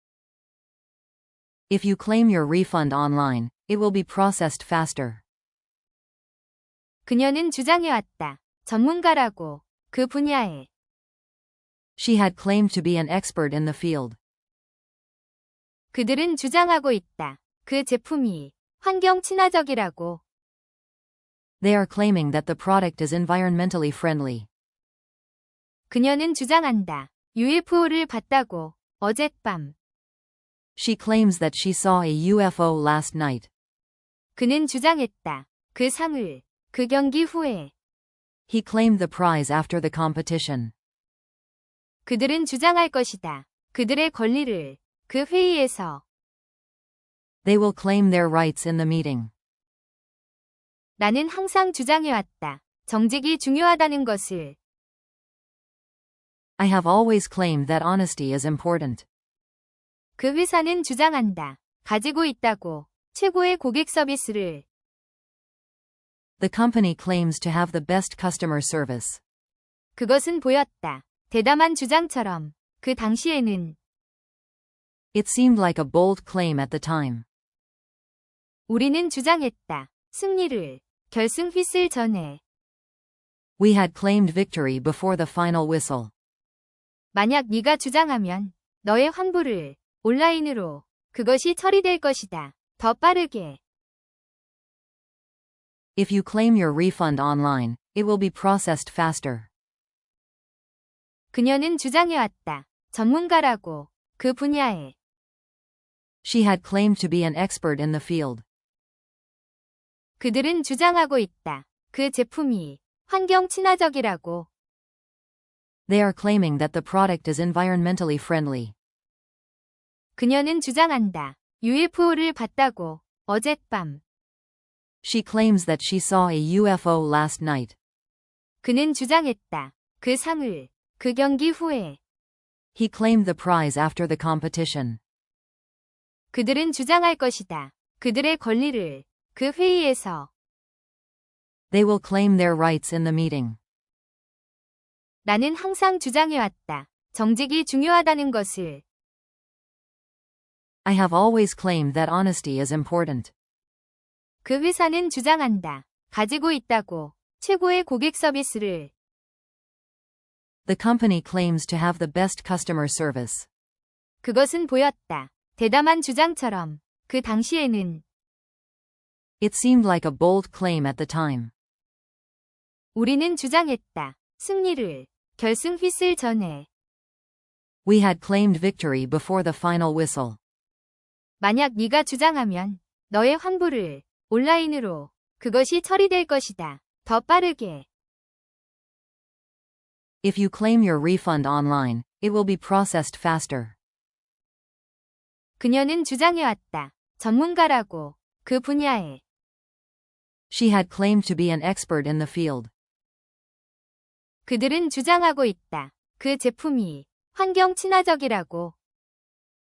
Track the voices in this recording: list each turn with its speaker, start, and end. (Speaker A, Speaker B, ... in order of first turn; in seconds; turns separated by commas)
Speaker A: 1.7-5.2, Speaker B: 7.0-10.7, Speaker A: 12.0-14.2, Speaker B: 15.9-20.2, Speaker A: 21.6-24.5, Speaker B: 25.9-29.7, Speaker A: 30.8-33.5, Speaker B: 34.4-37.7, Speaker A: 38.5-40.7, Speaker B: 42.0-46.0, Speaker A: 47.4-49.3, Speaker B: 51.0-54.6, Speaker A: 56.6-59.0, Speaker B: 60.2-64.6, Speaker A: 66.4-69.2, Speaker B: 70.0-73.8, Speaker A: 75.1-77.2, Speaker B: 78.7-82.4, Speaker A: 83.6-86.1, Speaker B: 87.1-93.6, Speaker A: 96.0-99.5, Speaker B: 101.3-104.9, Speaker A: 106.2-108.4, Speaker B: 110.2-114.5, Speaker A: 115.9-118.7, Speaker B: 120.2-124.0, Speaker A: 125.0-127.8, Speaker B: 128.6-132.0, Speaker A: 132.7-135.0, Speaker B: 136.3-140.3, Speaker A: 141.7-143.6, Speaker B: 145.2-148.8, Speaker A: 150.8-153.3, Speaker B: 154.4-158.9, Speaker A: 160.7-163.5, Speaker B: 164.2-168.0, Speaker A: 169.4-171.5, Speaker B: 172.9-176.7, Speaker A: 177.8-180.4, Speaker B: 181.4-187.9, Speaker A: 190.2-193.8, Speaker B: 195.6-199.2, Speaker A: 200.5-202.7, Speaker B: 204.4-208.7